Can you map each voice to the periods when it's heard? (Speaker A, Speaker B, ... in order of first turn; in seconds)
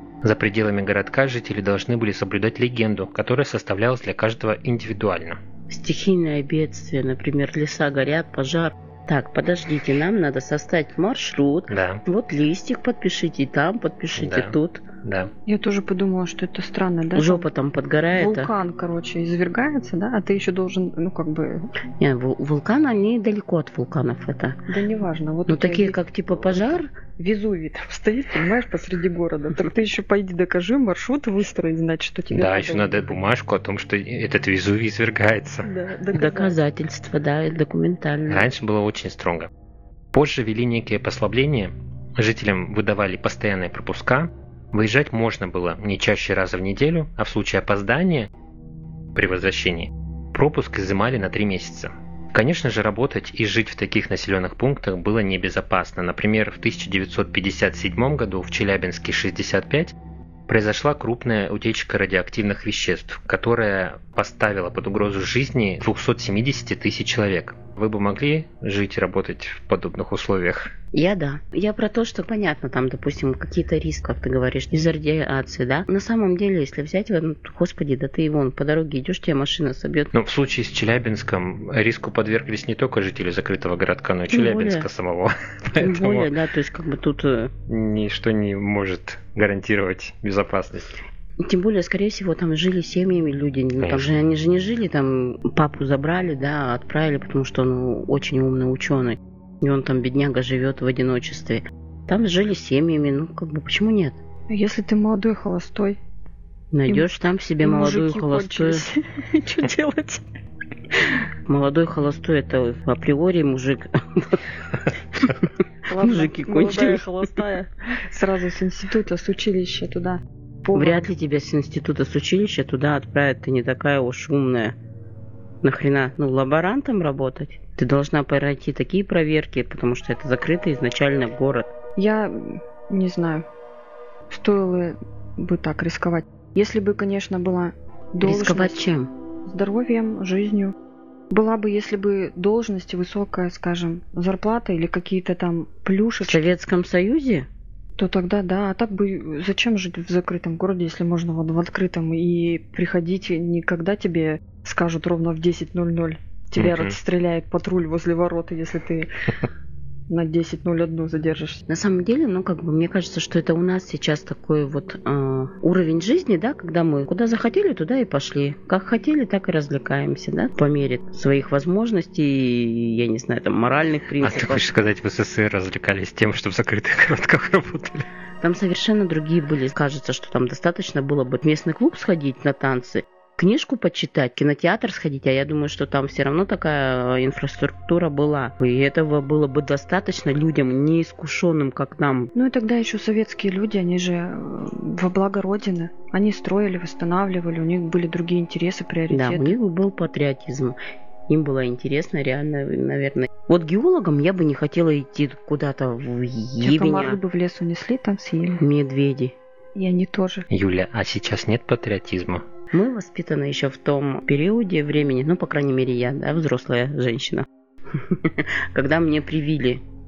Speaker A: 0.2-5.4, 11.7-12.0, 14.1-15.3, 32.3-35.7, 38.3-39.5, 40.1-48.3, 49.1-59.9, 60.5-70.7, 80.1-86.3, 87.7-90.9, 93.8-94.2, 156.6-156.9, 174.2-178.1, 210.5-212.4
Speaker B: 5.7-14.8, 17.1-18.5, 22.0-24.6, 25.5-26.9, 36.1-38.5, 70.9-80.1, 84.3-84.9, 85.8-87.5, 91.4-104.2, 106.7-108.8, 111.5-114.4, 115.2-117.0, 120.7-124.7, 125.6-131.7, 138.2-139.1, 146.2-147.5, 161.7-174.7, 178.4-192.3, 199.1-200.8, 201.3-207.2, 208.6-209.3, 212.7-219.8
Speaker C: 15.4-17.5, 18.1-21.7, 24.7-33.1, 35.6-36.6, 104.5-106.0, 106.9-110.2, 110.9-111.2, 115.9-121.1, 132.0-133.4, 134.3-138.9, 139.4-140.7, 141.3-146.5, 148.0-159.3, 160.1-161.6, 192.3-199.6, 206.6-208.6, 209.7-210.5